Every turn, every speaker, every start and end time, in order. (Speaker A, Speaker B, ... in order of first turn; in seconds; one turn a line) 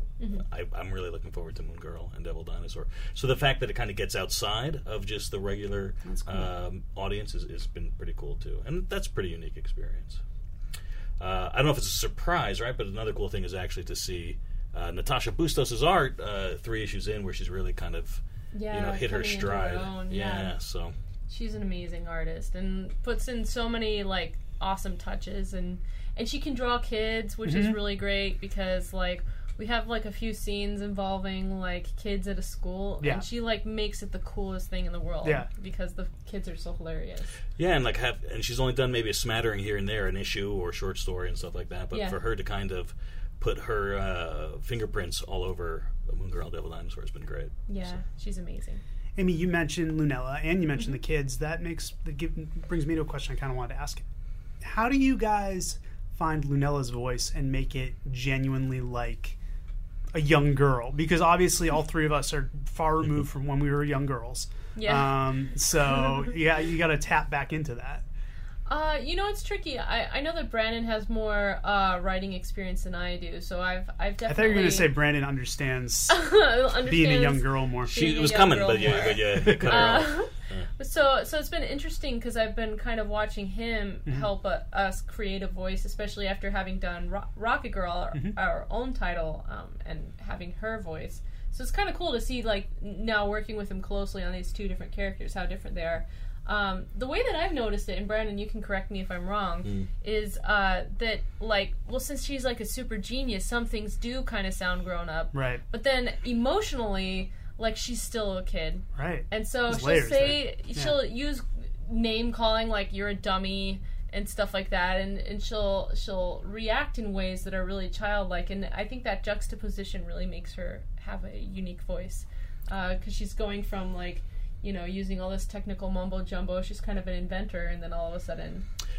Speaker A: 0.2-0.4
Speaker B: 0.4-10.2
Speaker C: 6.0-6.5
Speaker B: 11.2-20.9
Speaker A: 18.5-20.6
Speaker A: 21.3-37.4
Speaker C: 27.4-27.8
Speaker C: 33.0-33.3
Speaker C: 35.2-35.5
Speaker B: 37.6-47.6
Speaker A: 41.9-42.2
Speaker A: 47.7-48.8
Speaker C: 49.2-54.0
Speaker C: 54.6-59.4
Speaker C: 60.1-68.0
Speaker A: 64.8-65.2
Speaker A: 68.7-75.0
Speaker C: 74.2-78.0
Speaker A: 76.1-128.7
Speaker B: 77.9-80.7
Speaker C: 105.3-105.6
Speaker C: 109.0-111.0